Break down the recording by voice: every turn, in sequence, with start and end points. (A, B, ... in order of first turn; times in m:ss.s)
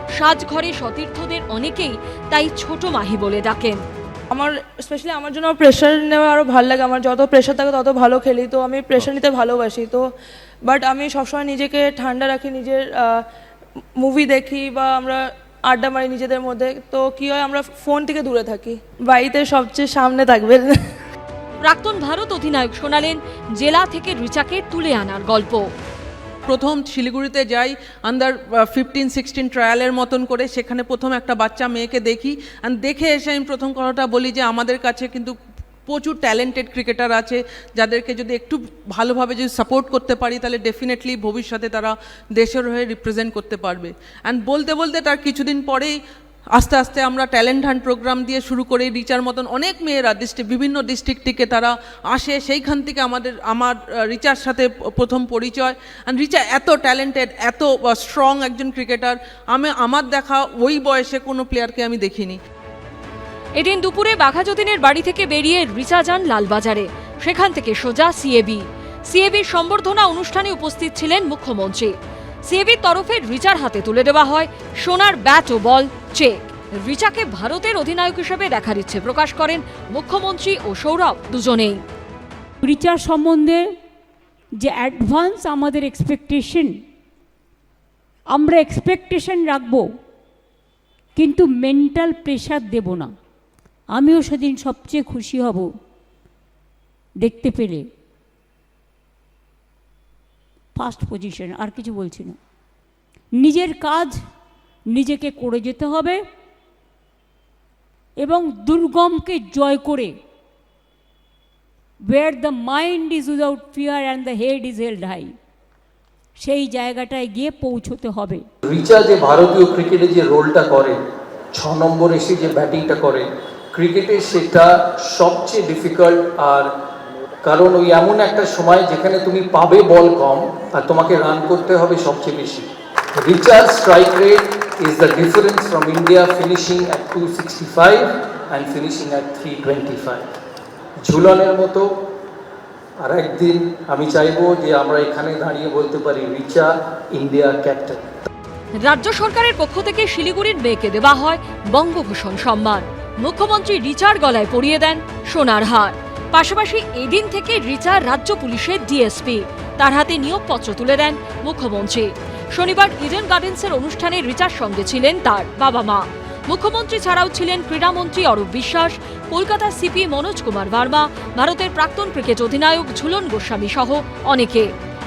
0:00.2-0:03.8 A
0:04.3-0:10.1 B
0:10.7-0:13.2 B
0:14.0-0:20.8 B
0:21.6-0:25.7 A
0:26.5-0:35.4 C
0:35.9-0:46.0 C
0:46.6-1:02.4 C
1:03.6-1:11.9 A
1:12.5-1:21.8 A
1:22.6-1:23.6 D
1:24.6-1:26.8 D
1:28.3-1:29.9 D
1:31.2-1:33.1 D
1:33.9-1:35.7 D
1:37.2-1:37.9 D
1:40.8-1:42.4 D
1:43.4-1:44.2 D
1:44.9-1:46.2 D
1:48.2-1:50.1 D
1:52.1-1:55.3 D
1:56.4-1:58.4 D
1:58.6-2:01.0 E
2:01.5-2:06.7 E
2:07.4-2:20.2 E
2:21.0-2:21.9 E
2:23.0-2:28.0 E
2:28.8-2:54.7 A